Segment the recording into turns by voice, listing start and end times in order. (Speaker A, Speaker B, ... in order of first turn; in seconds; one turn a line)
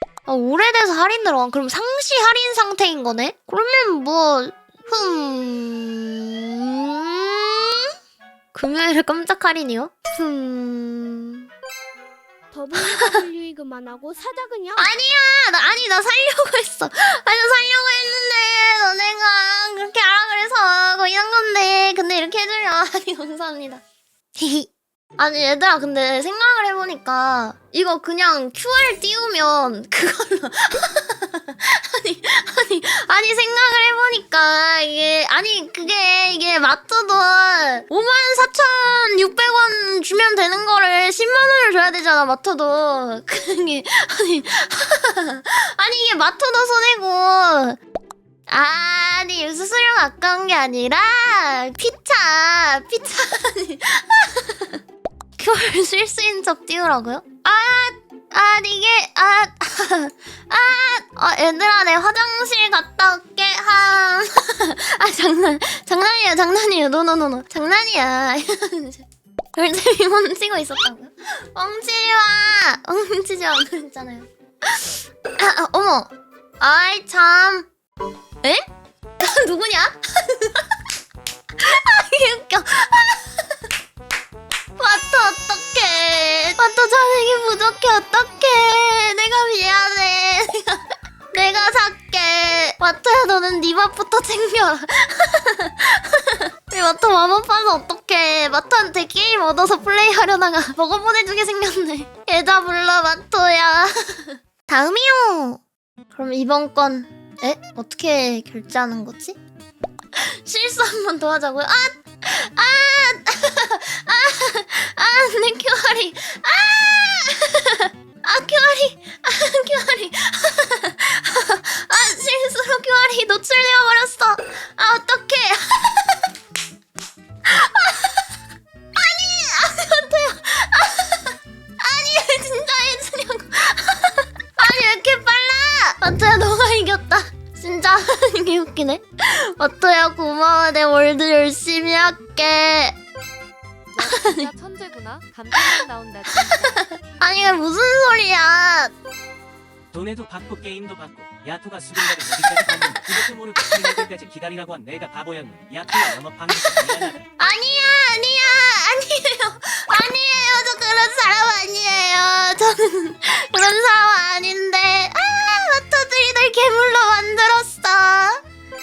Speaker A: 0.3-7.5
Speaker A: 8.6-11.4
Speaker B: 12.5-14.9
Speaker A: 12.8-13.2
Speaker A: 14.8-23.8
Speaker A: 24.4-47.8
Speaker A: 48.5-54.8
Speaker A: 55.4-77.7
Speaker A: 79.2-80.7
Speaker A: 81.6-83.3
Speaker A: 84.8-105.6
Speaker A: 106.1-109.4
Speaker A: 110.2-126.2
Speaker A: 127.5-128.2
Speaker A: 128.9-142.9
Speaker C: 143.9-147.0
Speaker A: 144.0-144.5
Speaker A: 145.6-145.8
Speaker A: 147.2-148.9
Speaker D: 149.9-157.2
Speaker A: 156.7-168.4